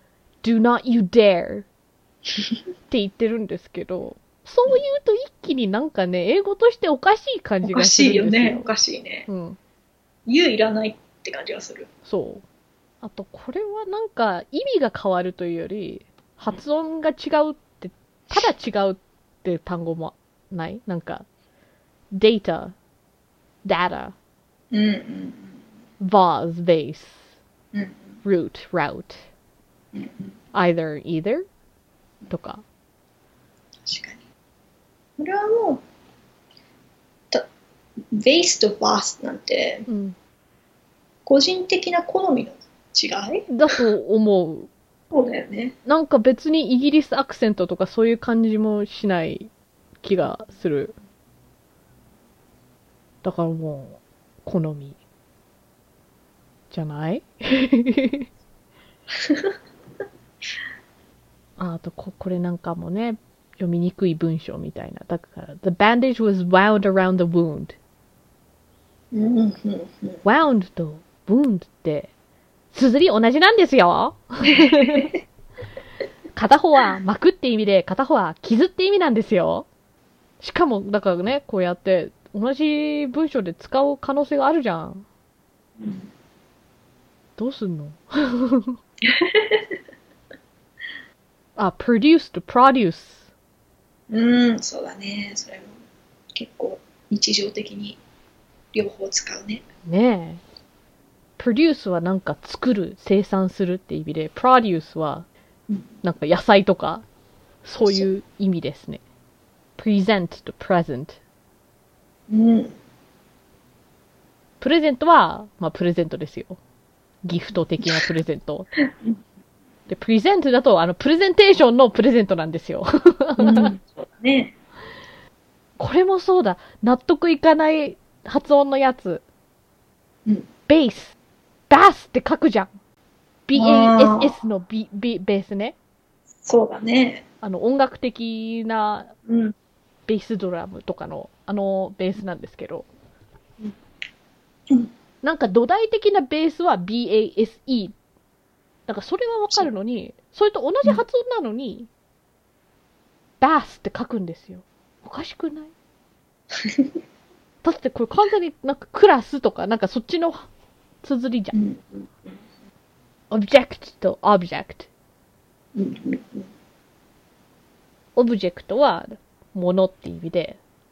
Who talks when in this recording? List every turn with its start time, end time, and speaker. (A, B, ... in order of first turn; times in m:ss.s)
0:00.4-0:01.7 A
0:02.9-0:08.7 A
0:07.6-0:09.3 B
0:09.3-0:09.6 A
0:10.3-0:11.9 B
0:12.1-0:12.4 A
0:13.0-0:21.3 A
0:22.1-0:22.8 A
0:23.6-0:24.2 A
0:24.7-0:25.5 B
0:26.0-0:27.3 A
0:27.7-0:28.0 B
0:28.2-0:29.2 A
0:29.9-0:30.3 B
0:30.5-0:31.4 A
0:32.3-0:32.6 A
0:33.9-0:34.2 B
0:35.2-0:35.8 B
0:38.1-0:39.9 B
0:39.9-0:40.2 A
0:41.3-0:43.7 B
0:43.5-0:44.7 A
0:45.1-0:45.8 B
0:45.9-0:49.5 A
0:50.0-0:51.0 A
0:53.2-0:55.0 A
0:56.7-0:58.3 A
0:59.2-0:59.6 B
1:01.6-1:07.8 A
1:09.1-1:10.2 B
1:10.2-1:12.1 A
1:12.7-1:15.1 A
1:14.5-1:15.2 B
1:16.4-1:19.7 A
1:20.4-1:25.1 A
1:25.8-1:26.1 B
1:27.4-1:28.8 A
1:29.0-1:29.8 B
1:31.6-1:33.3 A
1:34.1-1:35.8 B
1:36.3-1:38.0 B
1:38.7-1:39.6 B
1:39.9-1:40.4 A
1:41.4-1:45.3 A
1:46.0-1:47.0 A
1:47.6-1:49.0 A
1:49.8-1:51.2 A
1:52.3-1:52.8 B
1:54.6-1:56.6 A
1:57.2-1:58.7 A
1:58.8-1:59.2 B
1:59.9-2:03.7 A
2:03.4-2:04.6 B
2:05.8-2:09.2 A
2:10.7-2:11.2 A
2:11.7-2:12.7 A
2:13.5-2:15.8 A
2:13.6-2:14.4 B
2:16.4-2:17.2 B
2:17.4-2:19.1 A
2:19.3-2:19.6 B
2:20.1-2:22.9 A
2:25.2-2:27.9 A
2:28.9-2:31.9 A
2:33.4-2:35.7 A
2:36.6-2:36.9 B
2:37.6-2:40.5 A
2:41.0-2:41.6 A
2:41.5-2:42.3 B
2:43.3-2:44.9 A
2:45.8-2:46.5 B
2:48.2-2:50.6 A